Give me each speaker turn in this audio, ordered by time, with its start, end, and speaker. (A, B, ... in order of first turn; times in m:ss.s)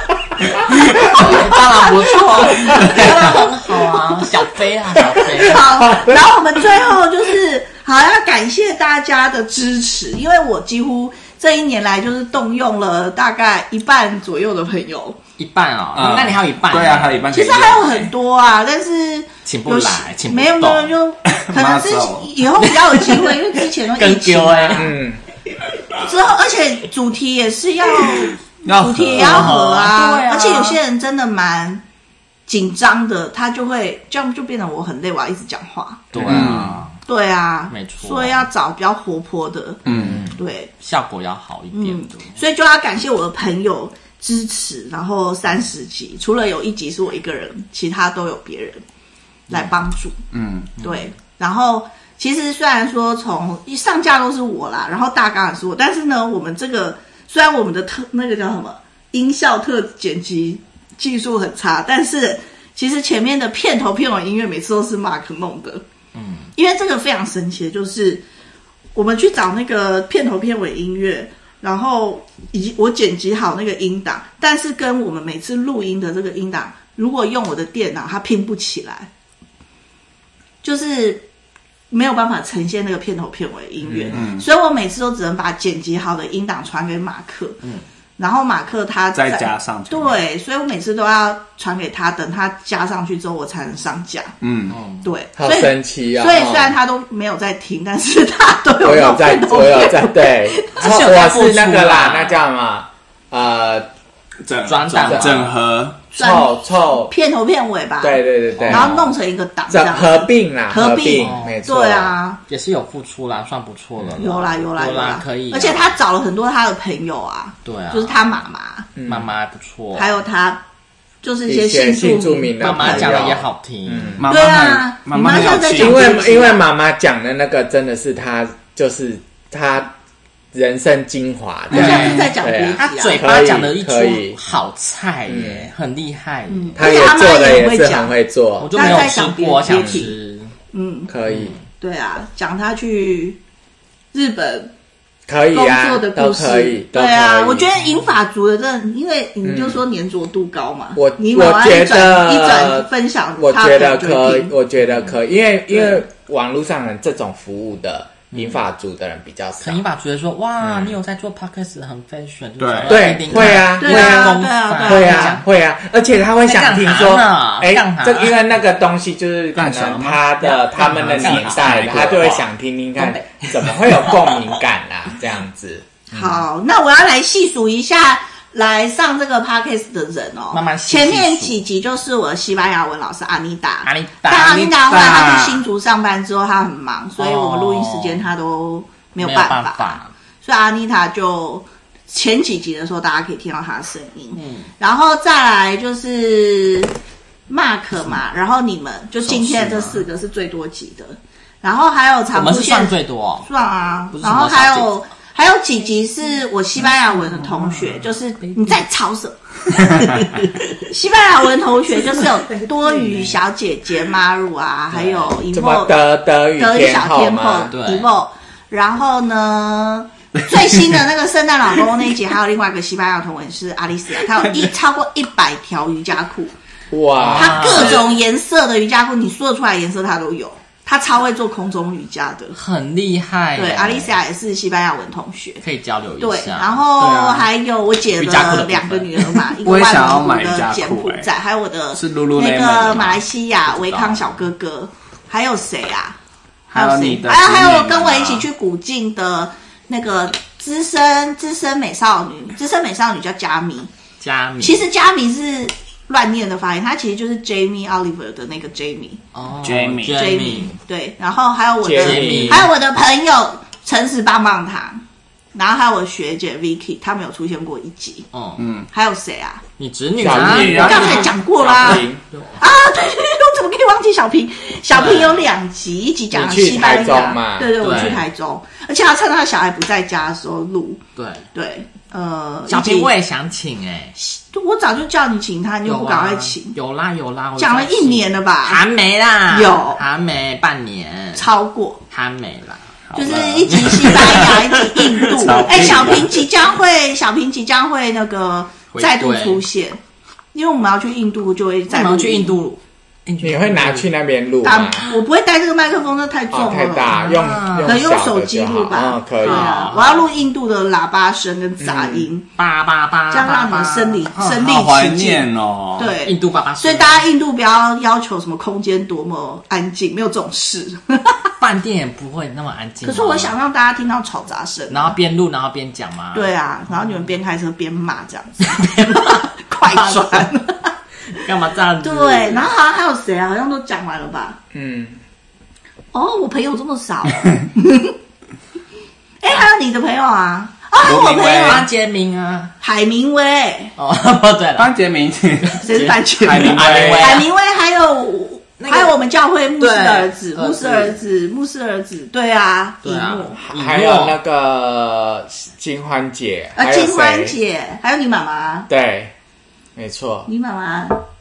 0:00.9-0:03.5 A
0:01.0-0:05.8 B
0:02.7-0:03.0 C
0:05.0-0:06.9 C
0:05.3-0:15.2 A
0:15.4-0:17.2 B
0:16.0-0:18.1 D
0:17.3-0:25.0 A
0:19.4-0:20.9 B
0:21.3-0:23.5 D
0:23.9-0:24.9 B
0:24.7-0:25.2 C
0:26.0-0:31.8 A
0:28.6-0:29.6 D
0:29.1-0:30.8 B
0:32.5-0:36.2 A
0:36.1-0:36.6 C
0:36.1-0:37.0 B
0:36.2-0:36.8 D
0:37.1-0:40.7 A
0:37.7-0:38.5 B
0:39.9-0:40.3 D
0:39.9-0:40.3 C
0:40.8-0:42.4 B
0:41.7-0:48.8 A
0:49.5-0:50.2 A
0:50.3-0:50.7 D
0:50.8-1:05.8 A
1:06.2-1:06.5 B
1:06.6-1:08.2 A
1:09.0-1:19.1 A
1:20.6-1:21.2 A
1:21.9-1:27.6 A
1:23.9-1:24.2 C
1:24.1-1:24.5 D
1:28.2-1:34.3 A
1:29.1-1:30.2 D
1:34.4-1:34.8 D
1:34.7-1:35.1 B
1:35.0-1:40.9 A
1:35.4-1:36.8 C
1:38.8-1:43.9 C
1:40.8-1:42.4 B
1:44.4-1:46.0 D
1:44.6-1:45.5 B
1:45.0-1:45.5 C
1:46.1-1:52.4 A
1:46.2-1:47.1 C
1:48.0-1:49.0 C
1:48.6-1:49.1 B
1:49.7-1:52.2 C
1:51.2-1:51.6 B
1:52.5-1:56.0 B
1:54.2-1:58.9 A
1:57.6-1:58.2 B
1:59.0-1:59.3 C
1:59.1-2:00.1 B
2:00.0-2:00.6 A
2:01.2-2:03.4 A
2:01.5-2:04.3 C
2:02.6-2:04.2 B
2:04.2-2:06.3 D
2:04.3-2:06.6 A
2:05.8-2:10.0 C
2:10.5-2:14.4 C
2:11.7-2:12.2 D
2:11.7-2:13.2 A
2:11.8-2:12.2 B
2:12.8-2:16.8 B
2:15.3-2:15.7 C
2:16.5-2:18.1 A
2:16.8-2:19.1 C
2:18.6-2:20.5 B
2:18.7-2:20.1 A
2:19.7-2:20.0 C
2:20.7-2:21.1 A
2:21.1-2:21.6 C
2:21.3-2:21.6 B
2:21.7-2:23.4 A
2:24.1-2:24.7 A
2:25.3-2:27.7 C
2:25.5-2:34.5 A
2:29.4-2:29.8 C
2:31.0-2:39.8 C
2:35.7-2:36.0 A
2:38.3-2:38.6 B
2:39.6-2:45.4 B
2:40.6-2:40.9 C
2:42.6-2:43.1 D
2:42.9-2:56.4 C
2:43.4-2:45.4 A
2:46.4-2:48.4 B
2:49.6-2:52.4 D
2:50.7-2:52.3 B
2:53.0-2:54.5 B
2:56.1-3:16.9 A
3:00.5-3:01.6 B
3:03.8-3:05.1 B
3:04.5-3:05.6 D
3:07.2-3:08.3 B
3:09.2-3:10.1 B
3:14.3-3:14.7 B
3:17.5-3:36.0 A
3:19.2-3:20.0 B
3:22.3-3:23.5 B
3:24.1-3:24.9 B
3:27.2-3:28.8 B
3:30.2-3:30.5 B
3:32.1-3:33.4 B
3:34.9-3:35.3 B
3:35.5-3:37.8 C
3:36.6-3:46.5 A
3:37.7-3:38.1 B
3:40.4-3:41.0 D
3:44.3-3:44.7 D
3:46.9-3:48.0 C
3:47.2-3:48.1 B
3:47.3-3:52.6 A
3:52.5-3:54.2 B
3:53.6-3:55.6 A
3:55.6-3:57.4 B
3:56.2-4:06.2 A
3:57.0-3:57.5 D
3:58.1-3:59.5 B
3:59.6-4:01.3 D
4:01.9-4:03.2 D
4:03.7-4:04.4 B
4:06.7-4:13.9 A
4:06.7-4:08.5 D
4:14.2-4:14.9 B
4:14.6-4:19.2 A
4:19.3-4:20.8 B
4:19.6-4:20.3 D
4:20.1-4:25.0 A
4:21.8-4:22.7 C
4:22.0-4:22.7 B
4:25.5-4:28.3 A
4:28.3-4:28.6 B
4:28.6-4:28.9 D
4:28.9-4:29.6 A
4:29.8-4:32.6 B
4:30.2-4:32.2 C
4:30.2-4:31.3 D
4:30.8-4:32.0 A
4:32.6-4:41.0 A
4:34.9-4:35.5 B
4:36.3-4:38.2 C
4:37.8-4:38.2 B
4:41.2-4:41.5 B
4:41.5-4:43.1 A
4:42.7-4:44.2 B
4:44.2-4:46.8 A
4:45.8-4:51.5 B
4:47.6-4:48.8 A
4:49.5-4:50.0 A
4:51.4-4:52.0 A
4:52.1-4:52.9 B
4:53.1-4:56.4 D
4:53.2-5:00.0 A
4:53.7-4:54.6 B
4:55.4-4:56.2 B
4:58.9-4:59.6 B
5:00.5-5:02.6 A
5:01.9-5:04.1 B
5:03.4-5:05.1 C
5:04.6-5:07.2 A
5:06.5-5:09.9 C
5:07.1-5:08.0 B
5:07.8-5:12.5 A
5:09.4-5:10.3 B
5:11.8-5:12.3 C
5:12.6-5:14.7 B
5:13.3-5:15.5 A
5:14.5-5:16.2 D
5:16.0-5:21.4 A
5:16.2-5:17.2 B
5:21.6-5:23.5 B
5:23.0-5:25.2 A
5:24.9-5:26.5 B
5:26.3-5:30.9 A
5:28.6-5:30.5 B
5:31.4-5:32.7 B
5:32.0-5:34.6 A
5:34.7-5:35.2 C
5:36.1-5:38.2 A
5:39.4-5:41.9 A
5:41.0-5:41.9 D
5:41.6-5:42.7 B
5:42.8-5:43.9 A
5:44.0-5:44.9 B
5:44.8-5:47.4 D
5:45.7-5:47.5 B
5:45.8-5:53.6 A
5:48.8-5:49.2 B
5:49.8-5:51.2 B
5:53.0-5:54.4 B
5:53.6-5:57.6 C
5:56.8-5:58.9 A
5:58.9-5:59.3 C
6:00.0-6:00.5 C
6:00.5-6:01.2 A